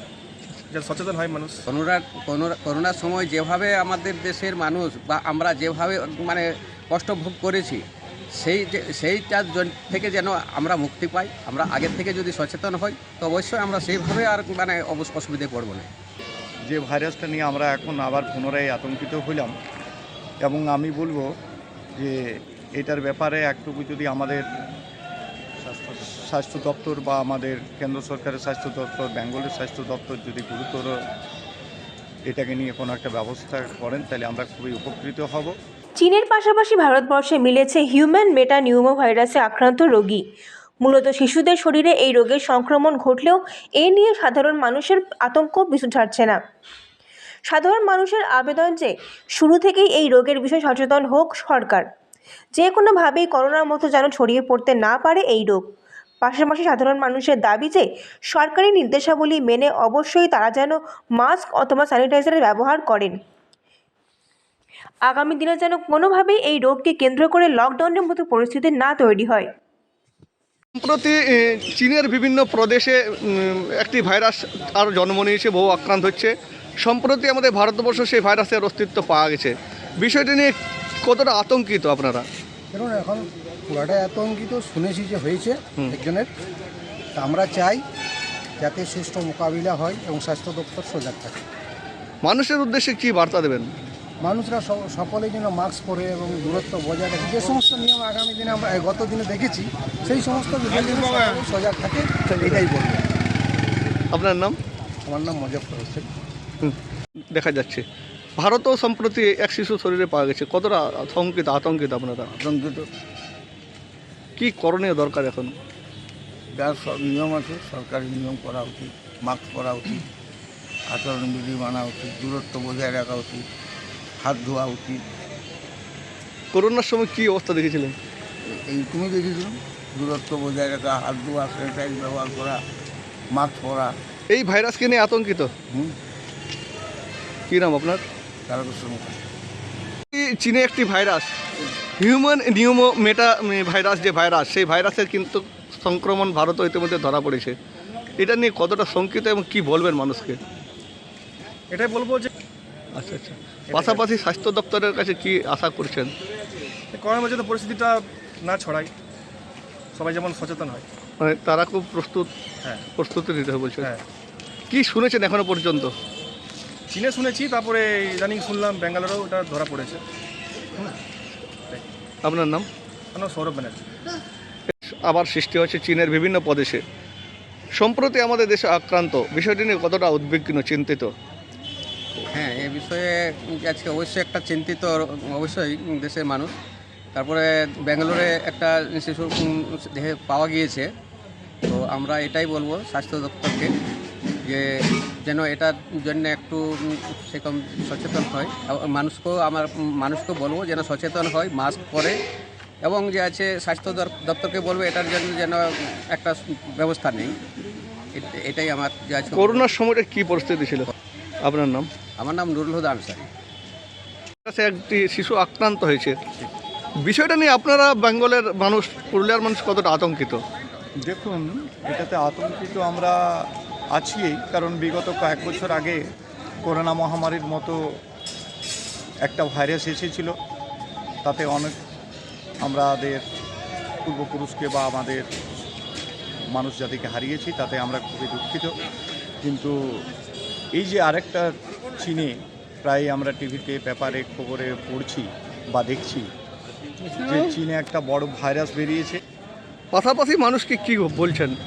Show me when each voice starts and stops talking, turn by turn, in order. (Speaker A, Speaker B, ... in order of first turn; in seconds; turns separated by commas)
Speaker A: 0.7-1.6, Speaker B: 1.7-7.8, Speaker B: 8.4-15.9, Speaker C: 16.7-19.5, Speaker C: 20.4-21.3, Speaker C: 22.0-24.4, Speaker C: 25.7-30.9, Speaker C: 32.3-35.5, Speaker D: 36.0-40.2, Speaker D: 40.8-46.4, Speaker D: 47.5-51.9, Speaker D: 52.5-55.6, Speaker D: 56.2-63.2, Speaker D: 65.0-69.5, Speaker E: 70.8-76.3, Speaker E: 76.8-82.2, Speaker F: 82.7-86.3, Speaker F: 87.2-87.8, Speaker F: 88.6-91.4, Speaker E: 92.2-93.7, Speaker F: 94.2-103.0, Speaker E: 104.1-104.6, Speaker F: 105.1-106.1, Speaker E: 107.3-107.8, Speaker E: 108.4-112.3, Speaker G: 112.3-112.9, Speaker E: 114.4-115.5, Speaker G: 116.5-120.1, Speaker G: 120.9-123.5, Speaker G: 124.2-125.0, Speaker E: 126.5-128.0, Speaker G: 128.5-132.6, Speaker G: 133.3-134.0, Speaker E: 134.3-135.5, Speaker G: 135.7-136.0, Speaker E: 137.5-138.0, Speaker G: 138.5-139.2, Speaker E: 140.1-141.3, Speaker E: 142.0-147.6, Speaker E: 148.2-150.4, Speaker A: 151.7-152.3, Speaker E: 153.0-156.1, Speaker A: 153.7-154.0, Speaker A: 156.9-158.9, Speaker A: 159.9-160.8, Speaker E: 161.2-162.3, Speaker E: 163.0-163.9, Speaker E: 164.7-165.9, Speaker A: 166.9-170.0, Speaker E: 172.2-172.7, Speaker A: 173.2-173.8, Speaker E: 175.0-176.8, Speaker E: 177.8-181.1, Speaker B: 182.3-186.5, Speaker B: 187.1-190.9, Speaker B: 191.7-193.7, Speaker B: 195.2-202.2, Speaker B: 202.8-207.3, Speaker B: 208.2-209.6, Speaker E: 209.3-210.9, Speaker E: 211.4-211.9, Speaker B: 212.2-213.3, Speaker E: 214.5-216.2, Speaker E: 217.1-220.4, Speaker C: 221.0-226.0, Speaker C: 226.6-227.8, Speaker C: 229.2-230.3, Speaker C: 231.2-231.8, Speaker C: 232.6-233.2, Speaker C: 234.1-235.2, Speaker C: 236.5-238.7, Speaker C: 239.4-240.0, Speaker C: 240.8-242.3, Speaker C: 242.8-246.3, Speaker C: 247.2-249.2, Speaker E: 249.9-251.6